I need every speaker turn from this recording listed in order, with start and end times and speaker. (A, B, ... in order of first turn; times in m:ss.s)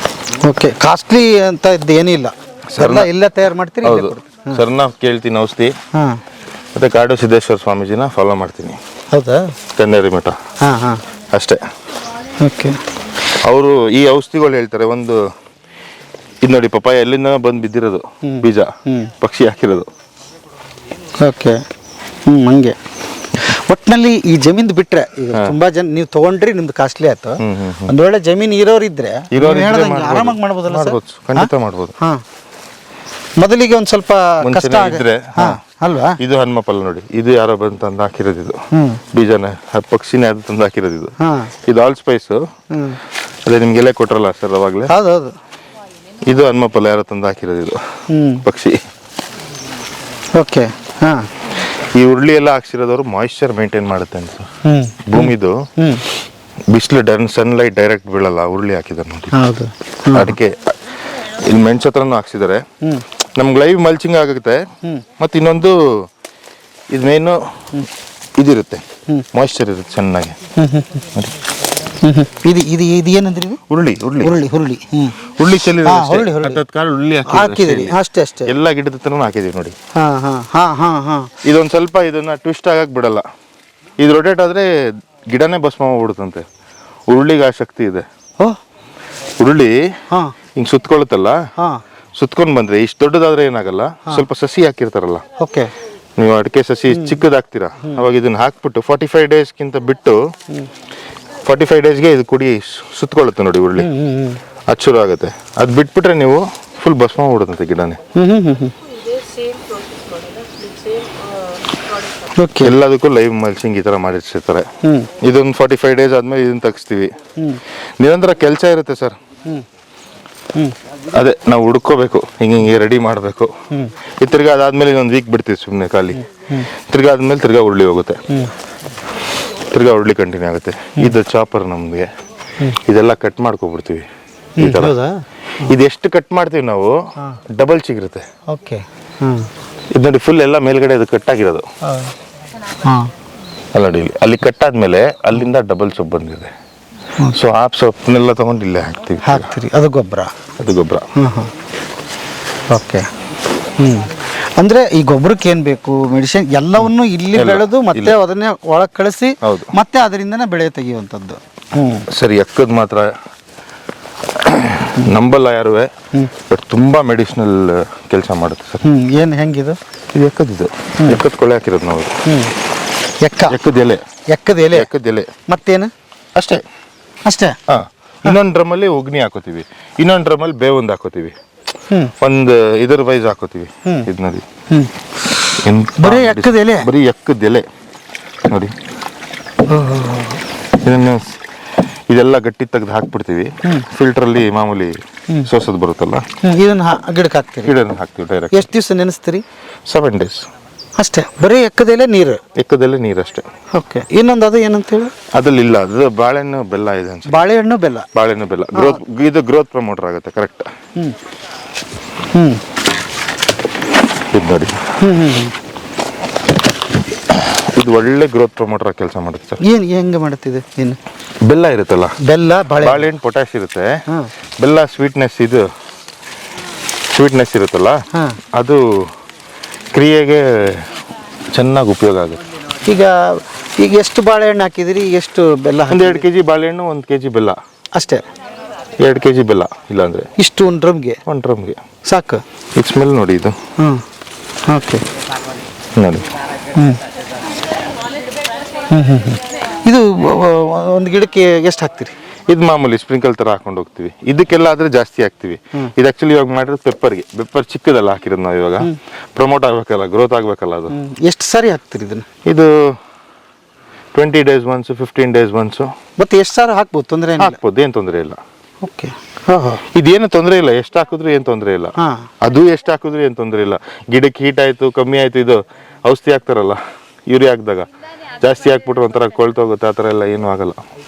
0:00.4-0:04.6 A
0:02.7-0:03.1 B
0:03.8-0:05.7 B
0:05.9-0:06.2 A
0:06.7-0:08.8 B
0:09.1-0:09.5 A
0:09.8-0:10.4 B
0:10.6-0:11.0 A
0:11.3-0:11.6 B
0:12.4-0:12.8 A
0:13.4-0:15.2 B
0:16.4-0:19.9 B
0:18.2-0:19.1 A
0:21.2-0:21.6 A
0:22.3-0:22.8 A
0:23.3-0:32.2 A
0:27.4-0:27.9 B
0:29.3-0:31.9 B
0:33.4-0:36.2 A
0:34.4-0:35.6 B
0:36.2-0:41.1 B
0:38.7-0:39.0 A
0:41.2-0:41.5 A
0:41.6-0:42.5 B
0:42.7-0:43.0 A
0:43.4-0:44.9 B
0:44.9-0:45.3 A
0:46.3-0:48.8 B
0:48.1-0:48.4 A
0:50.3-0:51.3 A
0:51.6-0:54.5 B
0:54.6-0:56.0 A
0:55.1-0:55.7 B
0:56.7-0:59.4 B
0:59.3-1:00.4 A
1:00.1-1:02.6 B
1:03.4-1:06.1 B
1:06.9-1:07.8 B
1:08.4-1:10.4 B
1:10.6-1:11.0 A
1:12.0-1:13.6 A
1:13.7-1:14.4 B
1:14.2-1:15.3 A
1:15.3-1:19.7 B
1:15.8-1:16.6 A
1:17.2-1:18.5 A
1:19.9-1:21.3 A
1:21.4-1:23.3 B
1:24.0-1:26.4 B
1:27.1-1:28.0 B
1:29.4-1:29.9 B
1:30.1-1:30.3 A
1:30.6-1:31.4 B
1:32.2-1:35.2 B
1:35.4-1:35.7 A
1:36.2-1:40.3 B
1:41.4-1:43.9 B
1:43.8-1:44.4 A
1:44.7-1:48.0 B
1:48.1-1:48.7 A
1:52.3-1:52.8 A
1:52.6-1:54.7 B
1:54.8-1:55.1 A
1:55.2-1:57.1 B
1:58.0-1:59.2 B
2:01.1-2:03.5 B
2:04.2-2:08.2 B
2:06.3-2:06.7 A
2:09.7-2:12.1 B
2:12.8-2:14.1 B
2:14.6-2:15.7 A
2:14.6-2:15.0 B
2:15.6-2:17.0 B
2:17.5-2:18.2 B
2:18.5-2:19.5 A
2:19.9-2:21.6 B
2:21.8-2:22.1 A
2:22.8-2:23.1 A
2:23.7-2:26.5 B
2:27.3-2:29.5 B
2:29.2-2:30.3 A
2:30.6-2:31.1 B
2:31.2-2:31.5 A
2:32.7-2:33.1 A
2:33.7-2:42.1 A
2:37.3-2:38.1 B
2:39.4-2:39.7 B
2:42.1-2:43.1 B
2:44.4-2:45.9 B
2:46.5-2:48.8 B
2:48.8-2:49.8 A
2:50.1-2:52.2 B
2:52.2-2:52.5 A
2:53.2-2:53.6 A
2:53.5-2:54.0 B
2:54.3-2:54.9 A
2:54.7-2:55.3 B
2:55.5-2:55.9 A
2:56.4-2:56.6 B
2:57.2-2:57.6 A
2:57.7-3:01.3 B
3:02.2-3:04.4 B
3:05.6-3:07.6 B
3:06.0-3:06.9 A
3:08.5-3:08.7 B
3:09.7-3:10.4 A
3:10.8-3:11.4 B
3:12.1-3:16.2 B
3:16.4-3:17.7 A
3:17.6-3:18.7 B
3:18.5-3:19.4 A
3:19.9-3:20.5 B
3:21.0-3:22.4 A
3:22.5-3:23.5 B
3:23.7-3:25.1 A
3:25.3-3:27.5 B
3:27.3-3:28.1 A
3:28.1-3:30.7 B
3:28.7-3:29.0 A
3:32.3-3:32.6 A
3:34.3-3:35.0 B
3:35.0-3:35.5 A
3:37.4-3:39.6 B
3:39.6-3:41.0 A
3:41.4-3:42.2 B
3:42.2-3:43.1 A
3:42.8-3:44.0 B
3:44.6-3:45.7 B
3:47.1-3:48.0 B
3:48.1-3:48.4 A
3:48.5-3:49.1 B
3:49.9-3:50.9 B
3:51.5-3:52.4 B
3:52.8-3:56.2 A
3:55.9-3:57.6 B
3:57.9-3:58.2 A
3:59.0-4:00.3 B
4:00.4-4:01.2 A
4:01.3-4:01.8 B
4:02.0-4:02.4 A
4:02.8-4:03.6 B
4:03.8-4:04.0 A
4:04.6-4:05.0 A
4:06.0-4:06.3 B
4:06.7-4:07.0 A
4:08.9-4:12.1 A
4:12.5-4:21.0 B
4:20.9-4:22.3 A
4:22.4-4:23.0 B
4:24.1-4:25.9 B
4:26.2-4:27.6 A
4:27.4-4:28.4 B
4:28.8-4:29.8 A
4:29.9-4:37.9 B
4:32.0-4:32.3 A
4:38.4-4:40.8 B